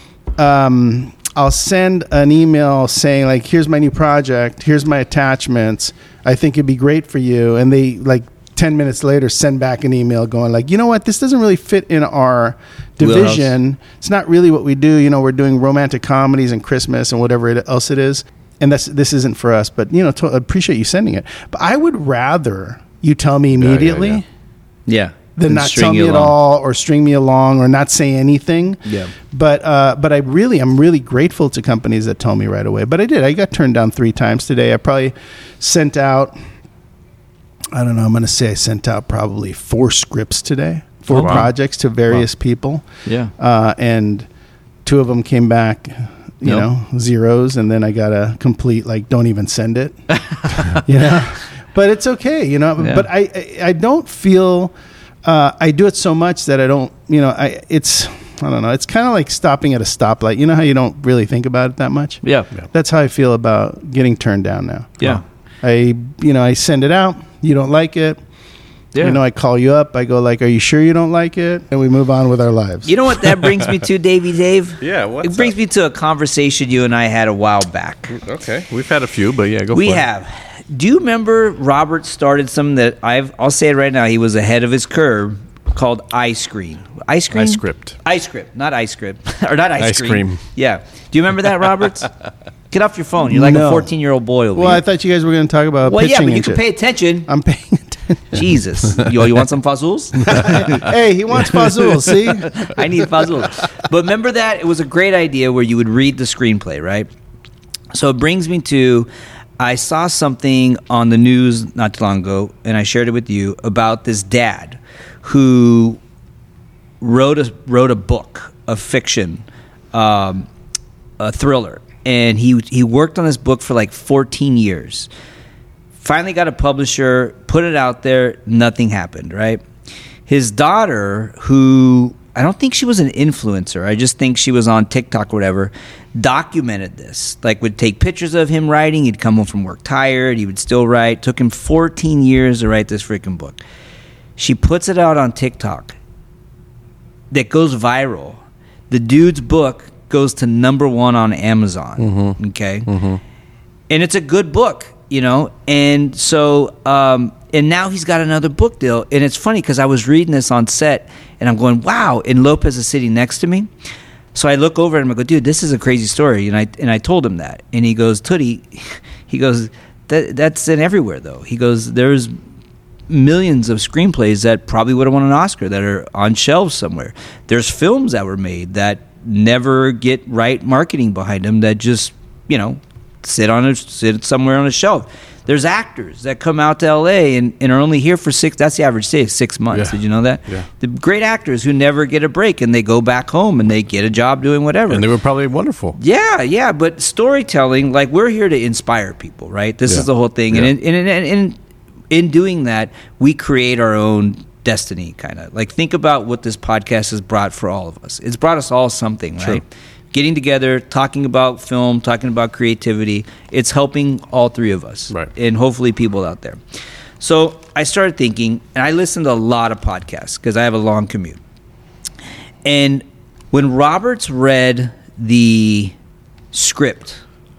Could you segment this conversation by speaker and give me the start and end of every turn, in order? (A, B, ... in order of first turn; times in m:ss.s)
0:00.4-0:24.2 A
0:13.0-0:13.6 B
0:23.6-0:24.2 C
0:24.9-0:26.3 B
0:25.4-0:36.4 A
0:28.9-0:29.1 B
0:37.7-0:42.8 A
0:41.1-0:41.5 B
0:41.1-0:41.5 C
0:43.1-0:43.3 B
0:43.4-0:44.3 A
0:44.8-0:54.7 A
0:50.5-0:50.8 B
0:52.8-0:53.1 B
0:55.2-1:05.0 A
1:02.2-1:02.5 B
1:05.6-1:08.2 A
1:08.9-1:09.2 B
1:09.0-1:13.0 A
1:12.9-1:18.2 B
1:14.8-1:15.6 C
1:18.2-1:20.1 C
1:19.7-1:32.1 B
1:27.3-1:28.0 C
1:29.8-1:30.4 C
1:32.7-1:34.8 B
1:33.2-1:33.9 A
1:34.6-1:36.6 A
1:35.8-1:37.3 B
1:37.3-1:38.4 A
1:38.3-1:40.9 B
1:40.2-1:42.8 A
1:41.5-1:47.1 B
1:47.9-1:49.1 B
1:49.6-1:56.0 B
1:57.0-2:00.5 B
2:01.2-2:05.1 B
2:06.0-2:09.6 B
2:10.3-2:23.6 B
2:24.4-2:26.0 B
2:27.3-2:32.9 B
2:32.0-2:33.2 C
2:33.9-2:43.7 B
2:44.3-2:52.3 B
2:53.1-3:15.0 B
3:09.7-3:10.7 C
3:14.9-3:16.0 C
3:16.0-3:21.6 B
3:19.9-3:20.7 C
3:22.1-3:36.6 B
3:37.2-3:41.4 B
3:42.6-3:45.9 B
3:46.5-3:47.2 B